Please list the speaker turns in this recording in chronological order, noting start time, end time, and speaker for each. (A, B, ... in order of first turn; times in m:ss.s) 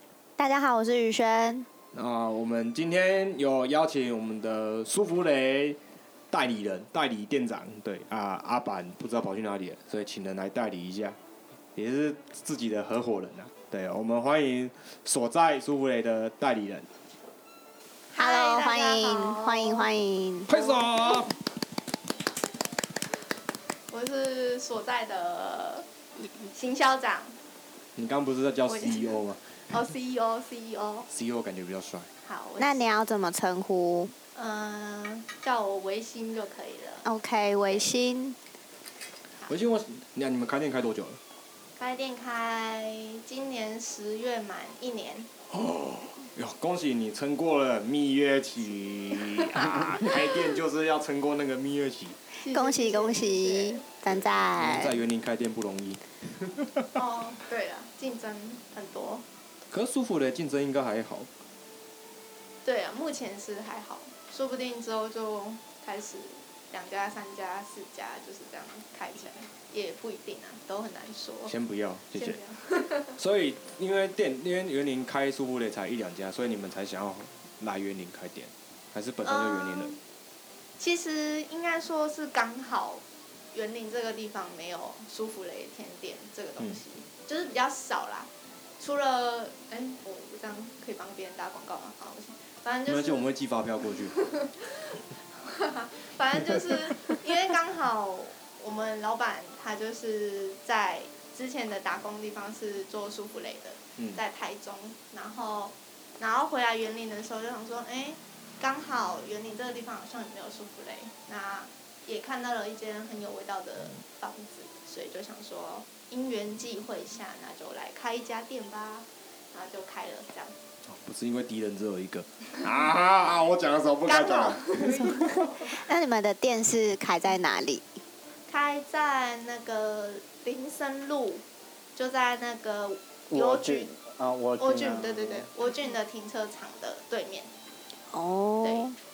0:00.4-0:01.7 A
0:01.9-0:05.8 B
0:06.3-0:11.2 B
0:11.8-0:16.9 B
0:18.1-0:19.9 C
0:18.1-0:20.5 A
0:20.5-0:21.3 B
0:20.5-0:21.2 C
0:23.9-0:25.9 C
0:26.5-0:27.4 C
0:28.0-0:29.4 B
0:28.7-0:31.1 C
0:31.1-0:32.1 B
0:32.2-0:32.9 C
0:32.6-0:34.1 A
0:34.4-0:37.1 C
0:37.0-0:38.4 A
0:37.7-0:37.9 C
0:39.5-0:41.2 B
0:41.8-0:45.3 C
0:45.5-0:52.2 B
0:49.3-0:50.2 C
0:52.4-0:53.8 C
0:52.4-0:54.9 A
0:54.1-0:56.9 B
0:56.9-0:59.2 C
0:59.7-1:01.3 B
1:02.6-1:11.6 C
1:11.5-1:12.4 B
1:12.2-1:13.2 C
1:13.2-1:20.0 B
1:19.2-1:20.0 C
1:20.8-1:33.3 C
1:32.9-1:34.2 B
1:34.0-2:00.6 C
2:00.8-2:05.1 B
2:04.1-2:05.7 C
2:04.9-2:08.0 A
2:08.5-2:11.4 C
2:12.0-2:13.9 C
2:13.3-2:15.5 D
2:14.6-2:17.5 C
2:18.1-2:19.0 A
2:18.6-2:18.9 C